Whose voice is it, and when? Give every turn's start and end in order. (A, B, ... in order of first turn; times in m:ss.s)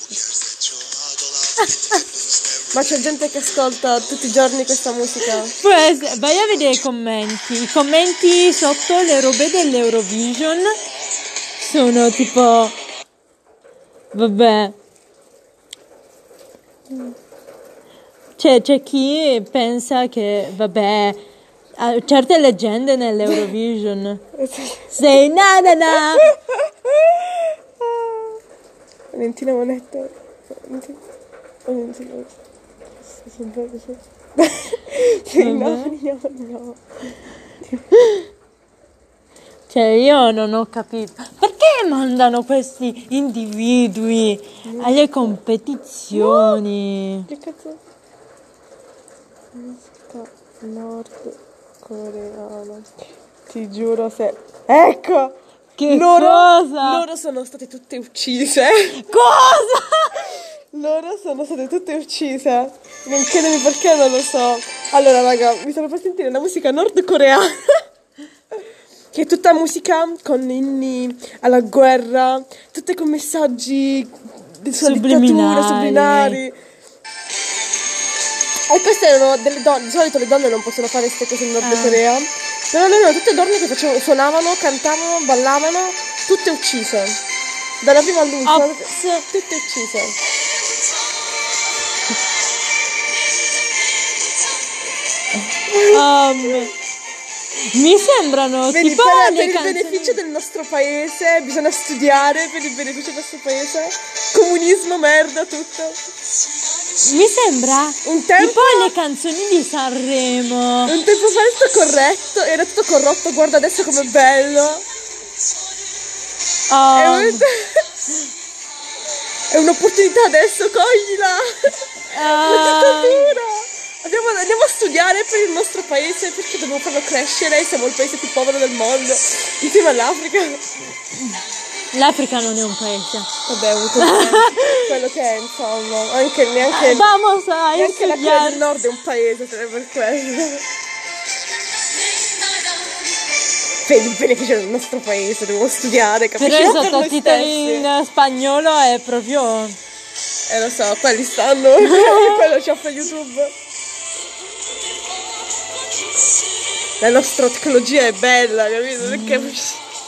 0:00.3-0:02.6 A
0:02.7-0:05.5 B
0:05.5-0:10.8 C
0:11.6-0:12.7 C
0:14.1-0:14.7 C
0:18.4-0:21.2 C
0:21.8-0:24.2 C
0:24.3-0:25.2 B
0:24.9-0:26.3 C
0:25.9-0:28.4 B
0:29.1-0:31.0 B
0:31.6-0:32.4 B
0:33.0-0:36.8 B
0:35.4-0:35.9 C
0:37.7-0:38.2 B
0:39.7-0:47.3 C
0:44.6-0:45.4 B
0:46.1-0:46.6 B
0:47.3-0:47.8 B
0:49.5-0:55.4 B
0:55.8-0:57.0 C
0:55.9-0:59.0 B
0:59.0-1:00.4 C
1:00.3-1:07.8 B
1:09.1-1:16.5 B
1:14.8-1:16.4 C
1:18.7-1:27.2 B
1:21.6-1:22.0 C
1:27.8-1:30.2 B
1:28.4-1:29.2 C
1:35.7-1:36.6 B
1:35.8-1:36.7 C
1:37.7-1:40.2 C
1:38.7-1:46.0 B
1:47.0-1:50.9 C
1:48.0-1:48.9 B
1:50.8-1:54.8 B
1:56.7-1:57.4 C
1:56.9-1:57.9 B
1:59.5-2:10.6 B
2:02.1-2:03.3 C
2:11.9-2:13.3 C
2:13.4-2:17.1 B
2:14.0-2:14.9 C
2:16.7-2:18.6 C
2:17.8-2:20.6 B
2:23.8-2:27.9 B
2:26.4-2:29.8 C
2:30.5-2:33.5 B
2:31.8-2:32.4 C
2:37.0-2:39.8 B
2:39.0-2:39.5 C